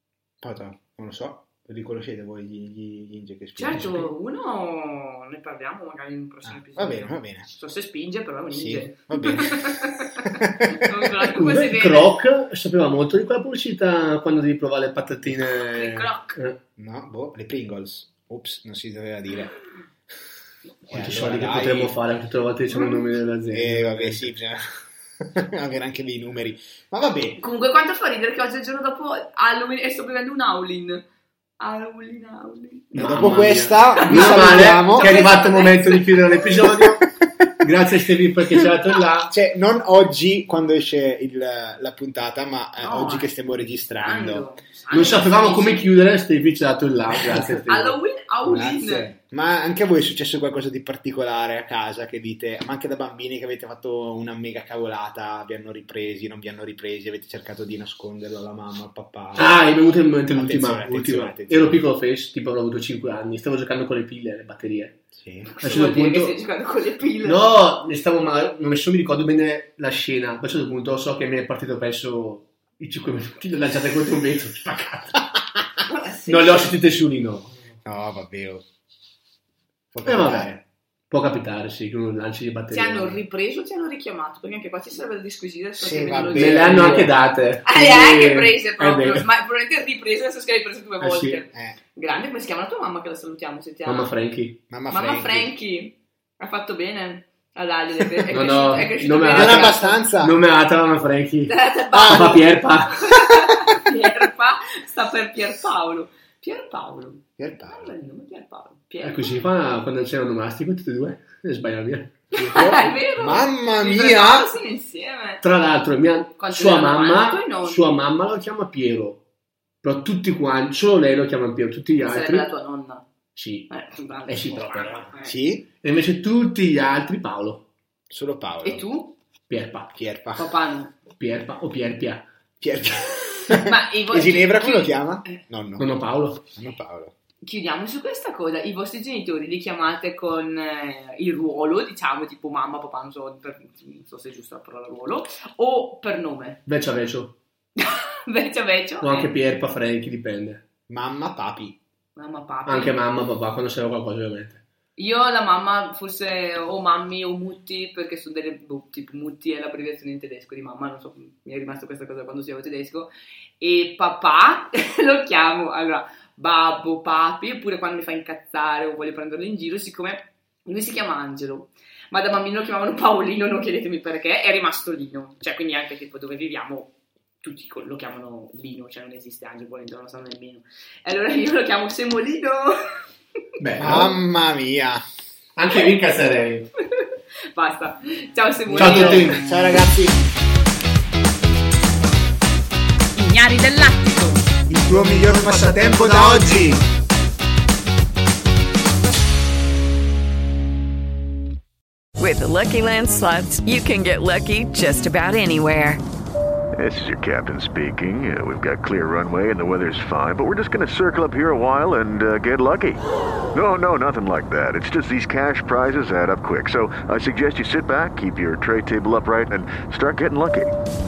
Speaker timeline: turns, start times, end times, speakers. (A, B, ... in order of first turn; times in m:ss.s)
0:00.4-0:03.9 A
0:03.6-0:12.2 B
0:03.7-0:04.1 C
0:06.4-0:07.5 A
0:08.5-0:11.3 A
0:11.3-0:16.6 C
0:15.7-0:16.4 B
0:16.8-0:19.6 A
0:20.9-0:22.0 A
0:20.9-0:24.3 C
0:22.7-0:23.0 B
0:23.5-0:27.4 A
0:27.4-0:31.0 B
0:31.6-0:36.6 B
0:32.9-0:35.3 A
0:32.9-0:39.3 C
0:39.3-0:44.5 A
0:42.8-0:43.3 B
0:44.0-0:46.0 B
0:44.9-0:48.0 C
0:47.1-0:47.5 A
0:47.6-0:49.1 B
0:48.4-0:59.6 A
0:59.4-1:05.0 C
1:00.3-1:01.8 A
1:05.1-1:05.5 A
1:05.5-1:07.5 B
1:05.6-1:06.4 C
1:07.2-1:15.3 C
1:15.9-1:16.7 B
1:16.3-1:17.6 C
1:17.8-1:18.6 A
1:19.9-1:20.6 A
1:20.0-1:23.2 C
1:22.7-1:27.1 B
1:25.8-1:27.1 A
1:26.3-1:29.3 C
1:27.7-1:34.2 B
1:31.0-1:31.4 C
1:31.5-1:31.8 A
1:33.8-1:34.6 C
1:34.7-1:35.5 A
1:34.9-1:40.1 B
1:38.3-1:43.2 C
1:39.3-1:40.4 A
1:41.5-1:49.4 B
1:41.9-1:42.4 A
1:47.4-1:47.9 A
1:49.0-1:52.1 C
1:52.3-1:54.5 A
1:52.4-1:55.4 B
1:55.4-1:59.2 C
1:56.4-1:58.0 B
1:59.8-2:02.5 C
2:02.0-2:03.1 B
2:03.4-2:05.1 C
2:03.7-2:05.3 B
2:05.2-2:05.7 A
2:05.8-2:07.7 C
2:08.1-2:08.8 A
2:08.6-2:09.2 B
2:09.5-2:10.0 C
2:09.9-2:10.6 A
2:10.4-2:11.0 B
2:11.1-2:12.2 C
2:12.6-2:15.9 A
2:13.5-2:15.4 B
2:15.8-2:16.4 C
2:16.5-2:17.1 A
2:17.4-2:26.6 B
2:26.7-2:27.4 C
2:27.8-2:29.3 B
2:29.0-2:30.6 C
2:30.9-2:31.8 A
2:32.2-2:33.0 B
2:32.7-2:34.6 C
2:35.0-3:02.8 B
3:03.6-3:04.2 C
3:03.8-3:05.0 A
3:05.6-3:06.7 C
3:06.8-3:09.4 B
3:08.7-3:09.6 C
3:08.7-3:10.2 A
3:13.2-3:14.5 B
3:14.7-3:16.8 A
3:22.2-3:26.0 D
3:26.8-3:40.8 E